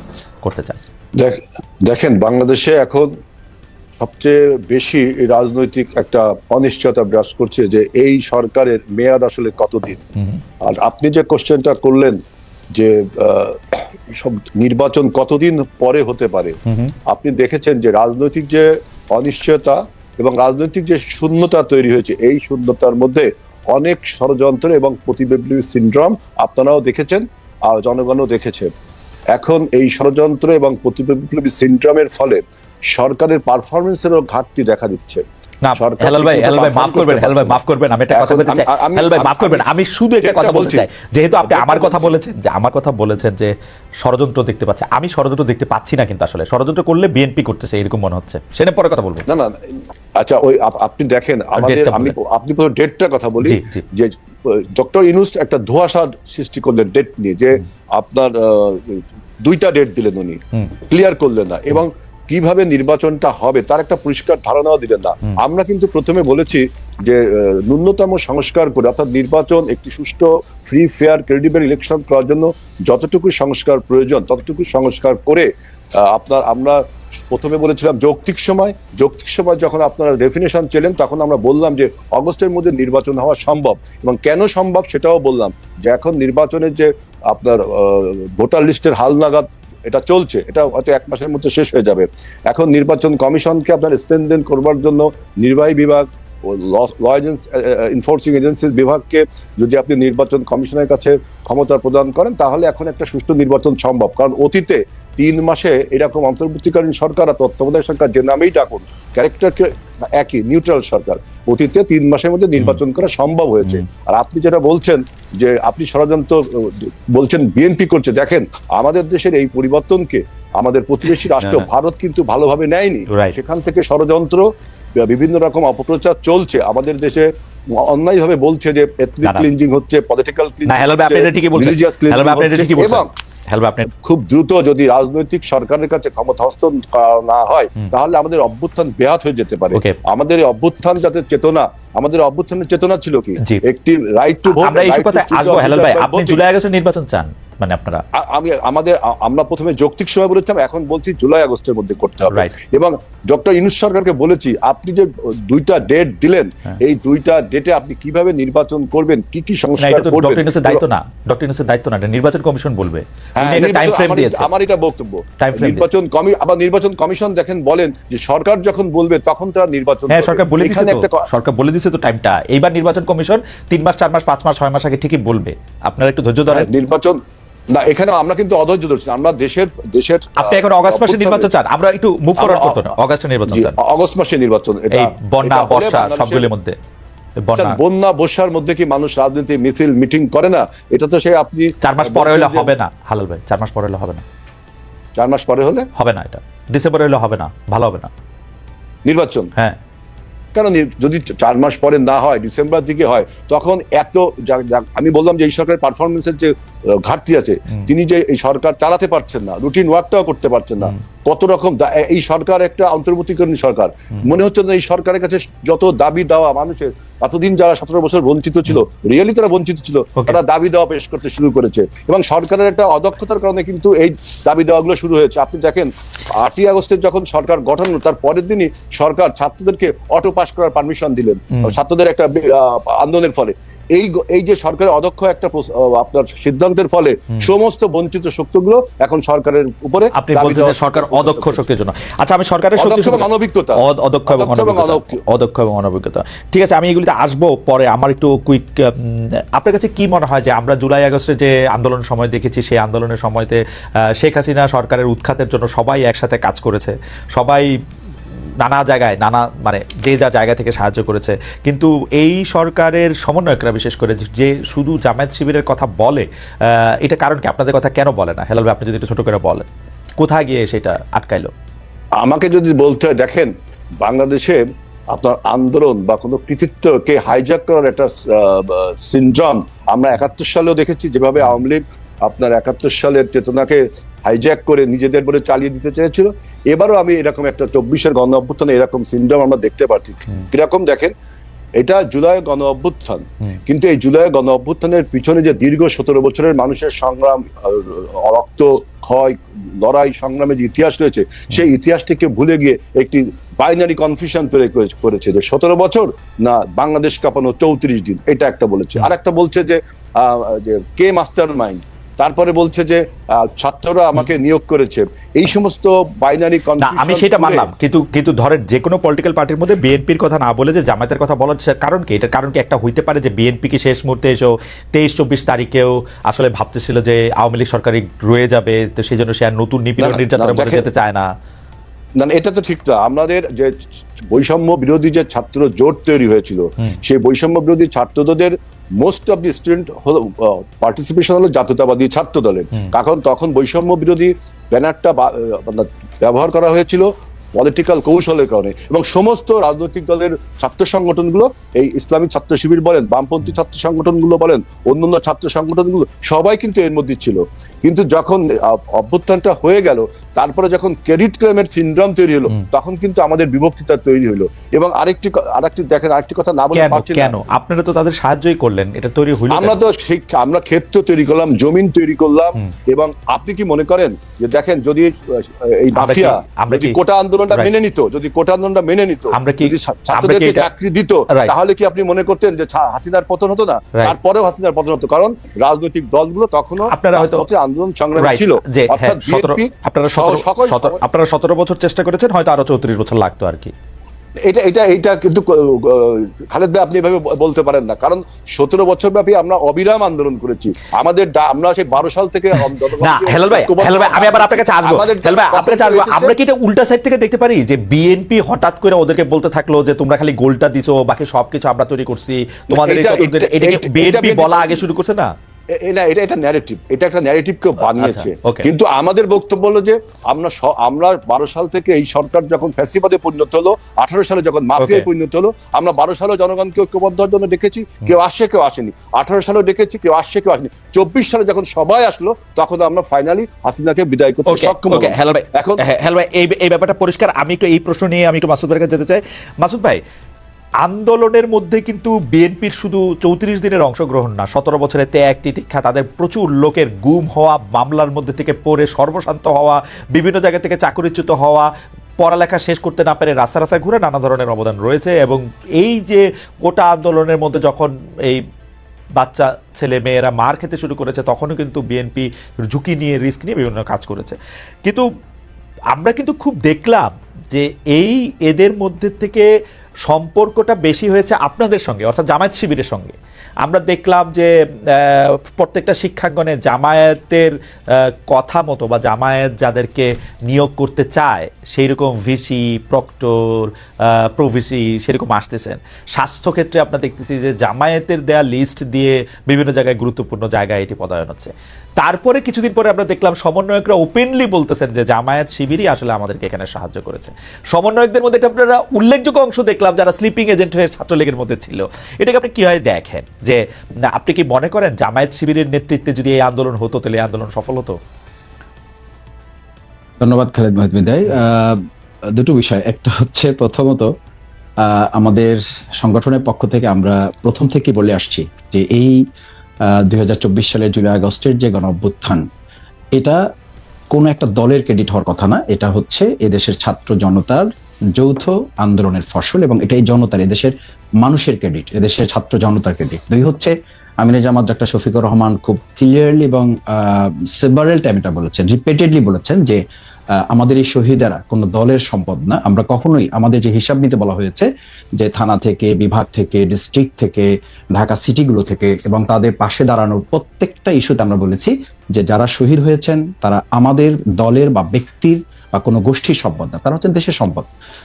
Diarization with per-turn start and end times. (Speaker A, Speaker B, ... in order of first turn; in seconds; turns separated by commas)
Speaker A: 0.4-0.8, Speaker B: 1.2-3.1, Speaker B: 4.0-10.0, Speaker B: 10.6-12.2, Speaker B: 12.7-28.7, Speaker A: 16.7-16.9, Speaker B: 29.3-35.2, Speaker A: 35.6-49.2, Speaker B: 35.8-37.6, Speaker B: 38.1-39.7, Speaker B: 40.2-40.9, Speaker B: 41.5-42.1, Speaker B: 49.3-133.1, Speaker A: 51.6-52.1, Speaker A: 53.4-53.8, Speaker A: 123.1-123.4, Speaker A: 130.7-133.9, Speaker B: 133.9-146.4, Speaker A: 144.5-148.0, Speaker B: 148.1-160.8, Speaker A: 152.3-152.6, Speaker A: 159.8-164.5, Speaker B: 163.4-171.3, Speaker A: 165.4-165.9, Speaker A: 170.1-176.7, Speaker B: 176.5-177.2, Speaker B: 177.7-181.5, Speaker A: 180.4-183.8, Speaker B: 182.4-182.9, Speaker B: 183.5-186.5, Speaker A: 184.9-186.8, Speaker A: 187.4-187.8, Speaker B: 187.6-192.7, Speaker A: 191.8-194.2, Speaker B: 195.2-195.9, Speaker A: 196.0-198.1, Speaker B: 199.1-199.5, Speaker B: 200.6-241.6, Speaker A: 240.1-257.7, Speaker B: 242.8-245.2, Speaker A: 258.6-269.7, Speaker A: 270.2-271.5, Speaker B: 272.2-291.1, Speaker B: 291.8-317.7, Speaker A: 316.8-331.3, Speaker B: 330.0-330.9, Speaker B: 332.2-333.7, Speaker B: 334.3-367.3, Speaker A: 366.7-369.8, Speaker B: 369.5-391.0, Speaker A: 376.0-377.0, Speaker A: 379.3-380.7, Speaker A: 386.9-387.5, Speaker A: 388.2-393.7, Speaker B: 394.4-406.4, Speaker A: 403.0-415.3, Speaker B: 412.7-414.9, Speaker B: 415.8-435.8, Speaker A: 417.8-418.7, Speaker A: 424.8-425.1, Speaker A: 434.5-440.0, Speaker A: 440.8-458.4, Speaker A: 459.2-465.1, Speaker A: 465.9-469.5, Speaker A: 470.0-508.0, Speaker C: 510.2-511.8, Speaker C: 512.3-514.1, Speaker C: 514.8-519.2, Speaker C: 520.1-522.4, Speaker C: 524.1-539.8, Speaker C: 540.5-544.7, Speaker C: 545.2-557.7